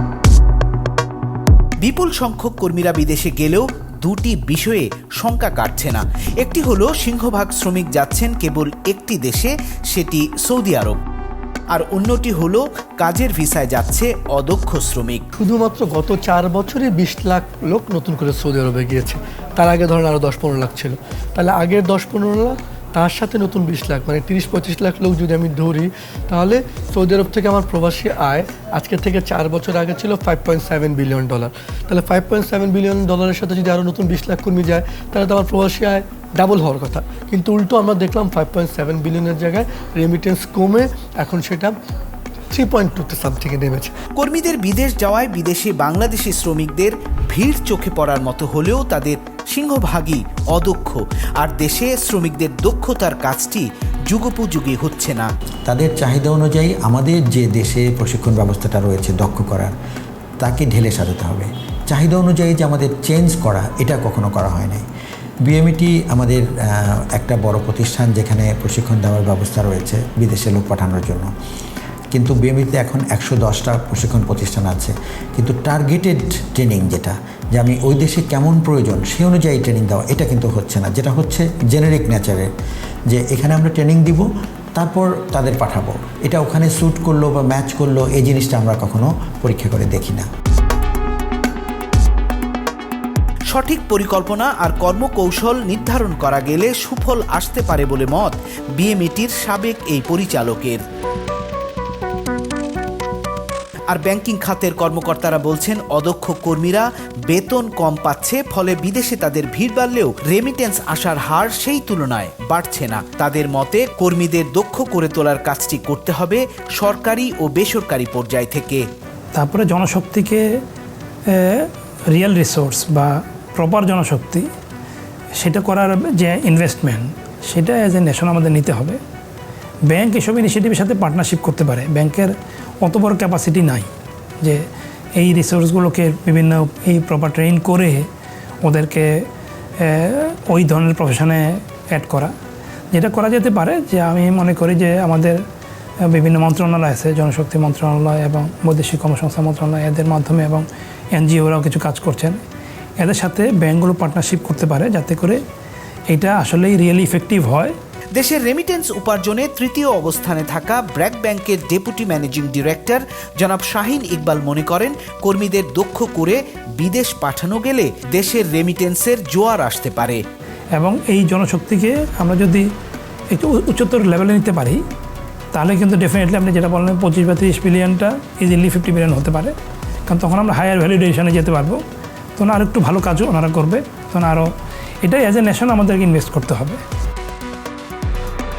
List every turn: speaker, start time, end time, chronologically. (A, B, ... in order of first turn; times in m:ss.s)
0:01.8-0:11.0 A
0:11.7-0:15.2 A
0:15.4-0:41.8 B
0:42.5-0:43.9 B
0:44.2-0:55.3 A
0:55.7-0:59.7 C
1:00.4-1:04.8 C
1:05.5-1:11.3 C
1:12.1-1:22.5 C
1:23.1-1:30.2 C
1:33.5-1:40.8 A
1:43.9-1:58.8 A
1:59.3-2:00.4 D
2:01.3-2:04.5 D
2:05.4-2:09.0 D
2:09.9-2:13.9 D
2:15.2-2:18.0 D
2:18.6-2:19.2 D
2:19.8-2:22.3 D
2:22.9-2:25.4 D
2:26.1-2:32.4 D
2:33.0-2:35.4 D
2:36.1-2:37.7 D
2:38.1-2:50.2 A
2:50.8-2:52.6 D
2:53.3-2:54.8 D
2:55.5-2:59.5 D
3:00.1-3:01.8 D
3:02.4-3:04.5 D
3:05.0-3:06.8 D